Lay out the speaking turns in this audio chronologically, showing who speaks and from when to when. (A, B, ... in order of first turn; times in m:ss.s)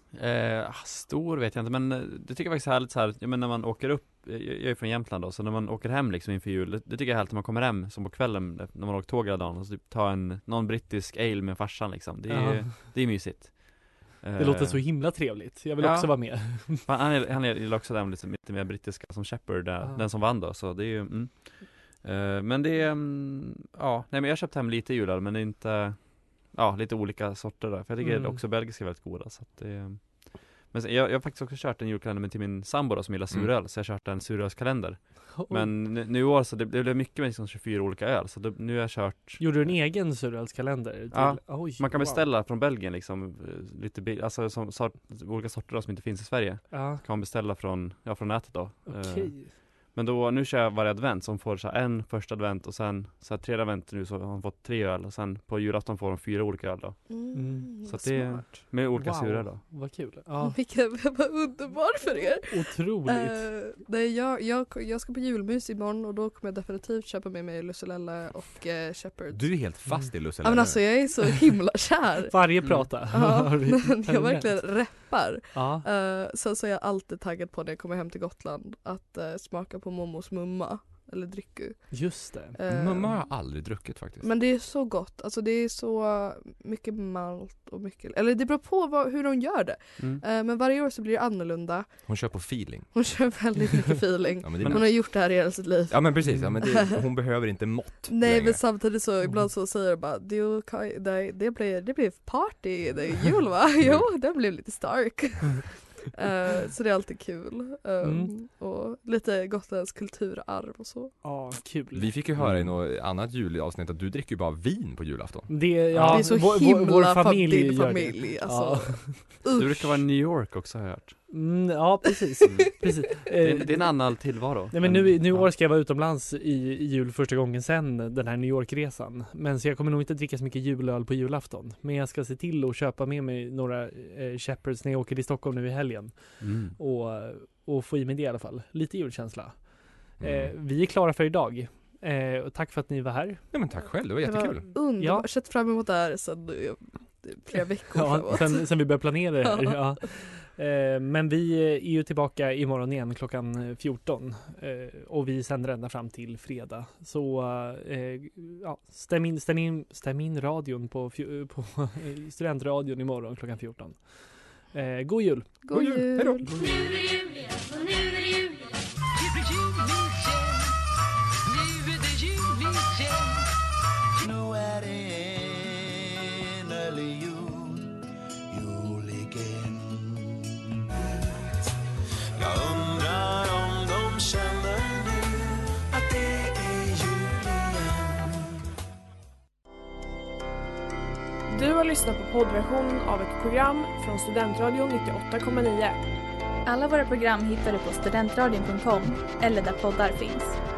0:00.1-0:15.0 A
0:12.3-0:12.7 B
0:14.4-0:16.9 B
0:15.8-0:39.8 A
0:28.0-0:28.4 B
0:35.4-0:35.7 B
0:39.4-0:42.2 B
0:41.1-0:57.1 A
0:46.7-0:47.0 B
0:48.9-0:49.5 B
0:57.1-0:58.4 C
0:57.3-0:57.7 B
0:57.9-0:59.6 A
0:58.7-1:00.6 B
1:00.4-1:09.6 C
1:02.5-1:03.5 B
1:09.3-1:11.1 D
1:10.4-1:32.4 C
1:12.3-1:15.0 B
1:15.5-1:15.9 B
1:21.9-1:22.6 B
1:22.7-1:24.3 D
1:32.1-1:32.9 D
1:32.9-1:37.0 C
1:34.4-1:35.4 D
1:35.9-1:38.6 D
1:38.1-1:51.2 C
1:43.8-1:44.1 D
1:48.0-1:48.3 B
1:51.2-1:52.1 B
1:51.9-1:55.7 D
1:52.4-1:52.7 A
1:55.5-1:59.3 B
1:55.9-1:56.2 A
1:56.0-2:00.0 C
1:59.6-2:01.3 A
2:01.3-2:23.4 B
2:03.3-2:05.5 A
2:16.4-2:16.8 A
2:20.2-2:20.5 D
2:23.5-2:24.7 D
2:24.2-2:30.0 C
2:25.0-2:25.3 B
2:27.9-2:45.6 B
2:45.6-2:46.6 C
2:45.7-2:46.6 D
2:46.6-2:50.8 E
2:51.4-2:53.5 E
2:54.2-2:58.0 E
2:58.5-3:00.4 E
3:01.0-3:01.7 E
3:02.4-3:08.6 E
3:11.5-3:16.0 F
3:16.7-3:20.6 G